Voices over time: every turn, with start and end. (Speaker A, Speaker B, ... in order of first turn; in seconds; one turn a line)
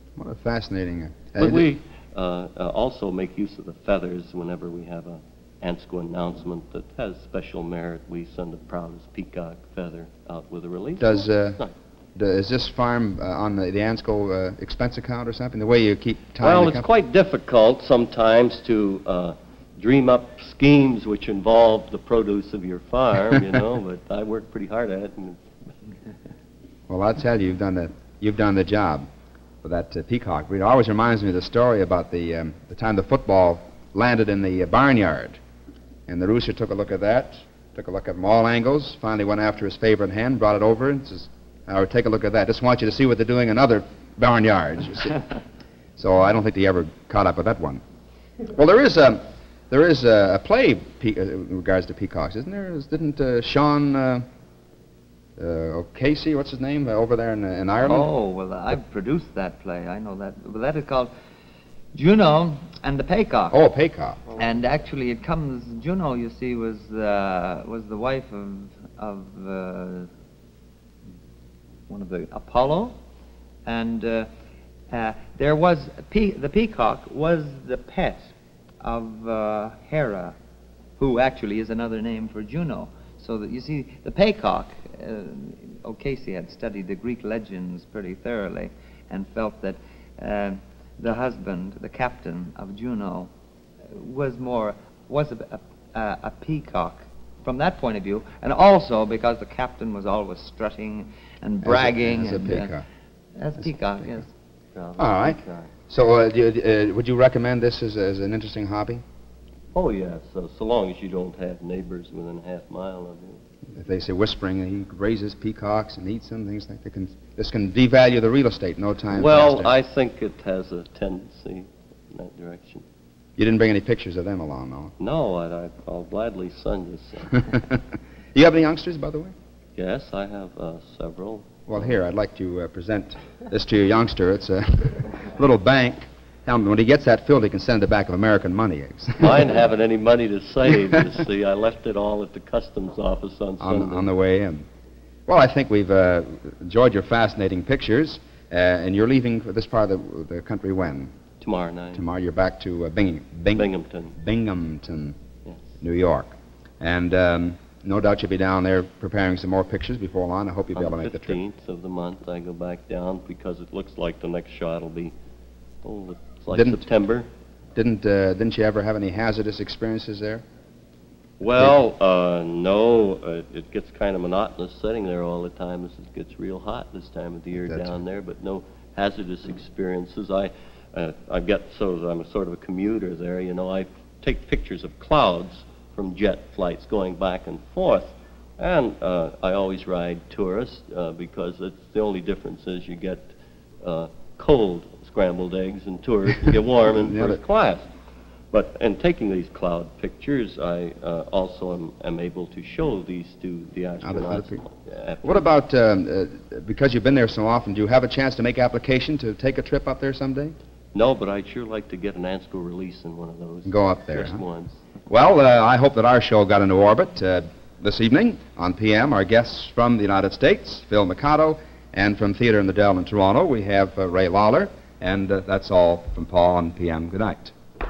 Speaker A: 0.2-1.7
Speaker B: 1.4-11.7
Speaker A: 11.0-11.6
Speaker A: 12.2-16.9
Speaker B: 16.4-25.4
Speaker A: 26.9-29.1
Speaker A: 29.6-35.4
Speaker A: 36.1-45.2
Speaker A: 46.0-47.8
Speaker A: 48.5-54.2
Speaker A: 55.4-58.1
Speaker C: 57.8-61.1
Speaker C: 61.9-63.6
Speaker A: 63.5-64.2
Speaker C: 64.3-70.1
Speaker C: 71.9-73.0
Speaker C: 73.7-74.3
Speaker C: 74.9-80.3
Speaker C: 81.0-93.3
Speaker C: 93.9-102.7
Speaker A: 101.6-102.8
Speaker C: 103.4-104.3
Speaker B: 104.8-105.7
Speaker A: 105.0-109.0
Speaker B: 109.7-113.4
Speaker A: 113.7-119.7
Speaker B: 119.1-122.8
Speaker A: 123.4-124.9
Speaker B: 125.0-127.5
Speaker A: 127.3-129.3
Speaker B: 129.8-131.9
Speaker A: 131.7-139.5
Speaker B: 139.2-144.1
Speaker A: 143.6-144.7
Speaker A: 145.3-151.1
Speaker B: 151.4-152.0
Speaker A: 151.9-155.2
Speaker B: 153.5-154.2
Speaker A: 155.8-161.4
Speaker B: 160.8-165.1
Speaker B: 165.8-167.3
Speaker A: 166.5-166.8
Speaker A: 167.8-170.4
Speaker B: 171.4-197.9
Speaker A: 177.7-178.0
Speaker A: 196.9-197.4
Speaker B: 198.5-205.5
Speaker A: 204.0-204.6
Speaker A: 205.2-210.6
Speaker B: 210.9-214.8
Speaker A: 213.7-214.4
Speaker A: 215.1-227.5